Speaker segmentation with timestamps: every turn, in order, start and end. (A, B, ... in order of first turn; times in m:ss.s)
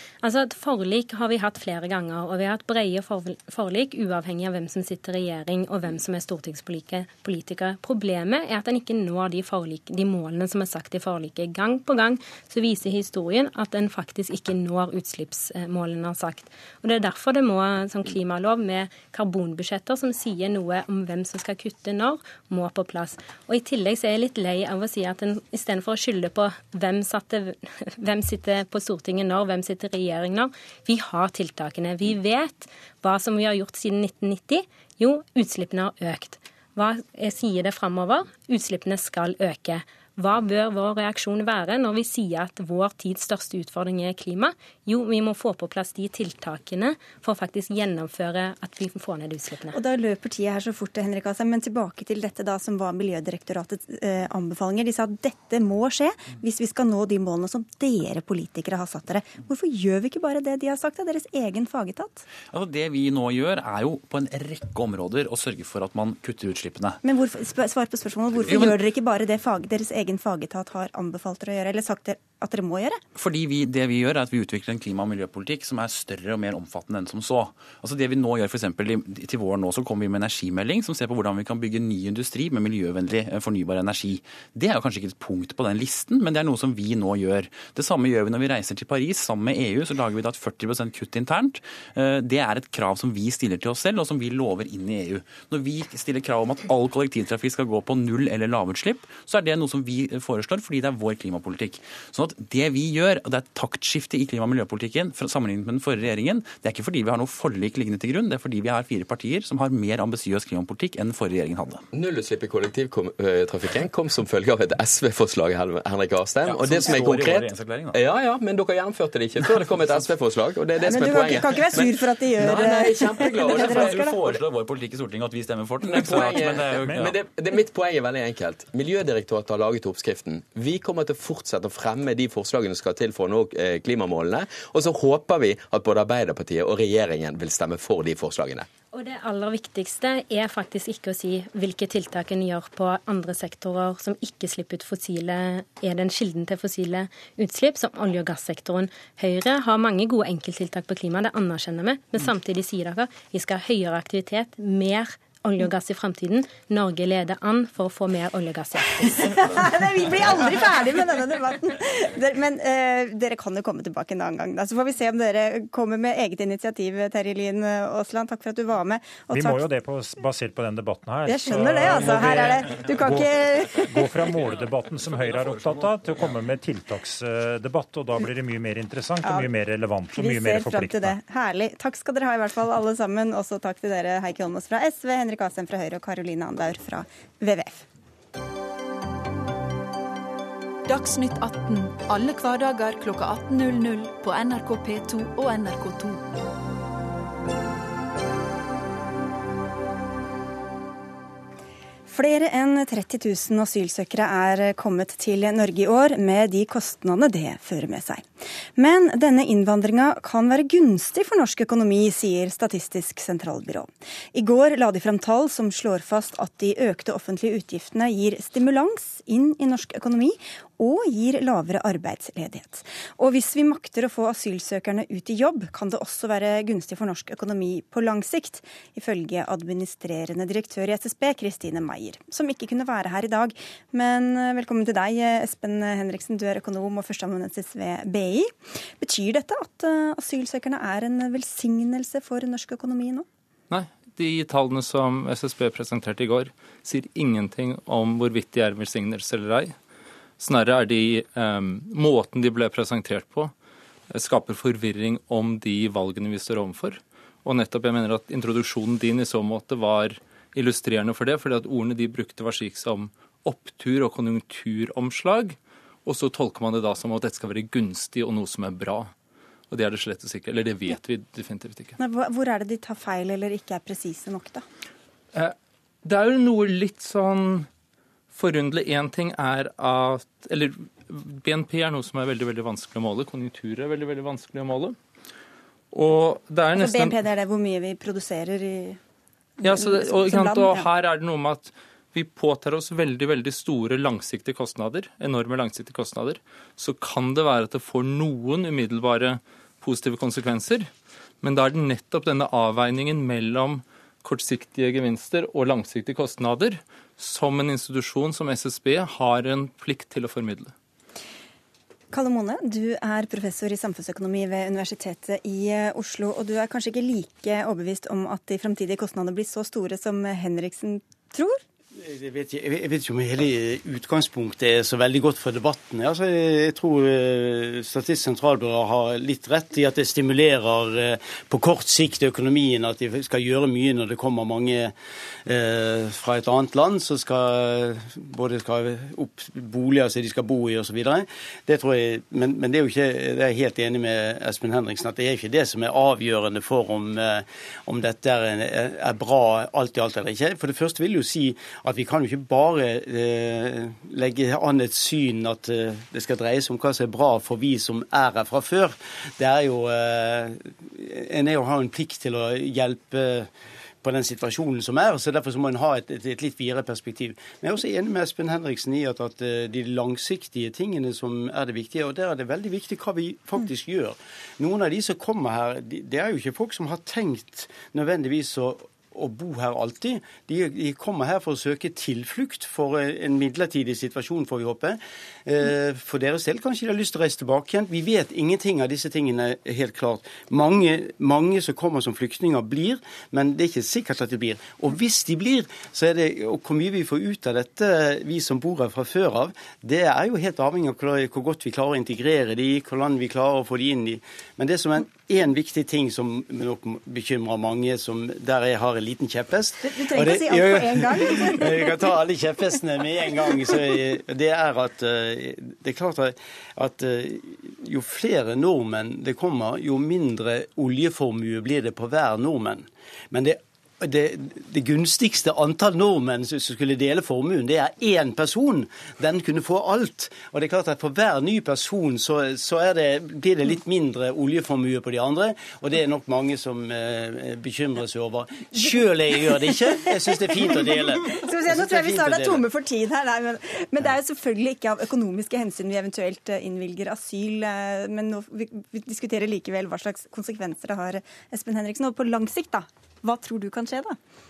0:00.2-0:49.8 A
0:49.7-1:02.3 B
1:02.5-1:07.0 C
1:07.0-1:13.0 B
1:08.4-1:08.8 C
1:13.2-1:51.8 C
1:51.9-2:01.9 D
1:56.4-1:58.0 C
1:59.4-2:00.0 C
2:00.9-2:04.2 B
2:02.4-2:04.4 D
2:02.4-2:07.2 C
2:05.8-2:18.7 D
2:06.7-2:07.1 E
2:18.9-2:39.3 A
2:39.0-2:49.6 B
2:49.3-3:01.2 E
2:51.3-2:53.9 B
2:55.0-2:55.9 C
2:59.2-2:59.5 B
3:00.1-3:07.9 B
3:10.9-3:16.3 F
3:22.1-4:03.3 B
4:03.7-4:09.8 G
4:10.4-4:13.5 G
4:14.1-4:29.1 G
4:29.7-4:32.0 G
4:32.0-4:34.6 B
4:35.3-4:37.7 G
4:38.3-4:45.0 G
4:45.9-4:47.2 G
4:46.8-4:49.0 B
4:49.6-4:50.9 B
4:49.6-5:00.9 G
5:01.4-5:10.7 G
5:12.1-5:21.6 B
5:22.0-5:34.9 H
5:35.4-6:03.5 H
6:04.0-7:22.6 H
6:49.8-6:52.0 B
7:19.6-7:34.2 B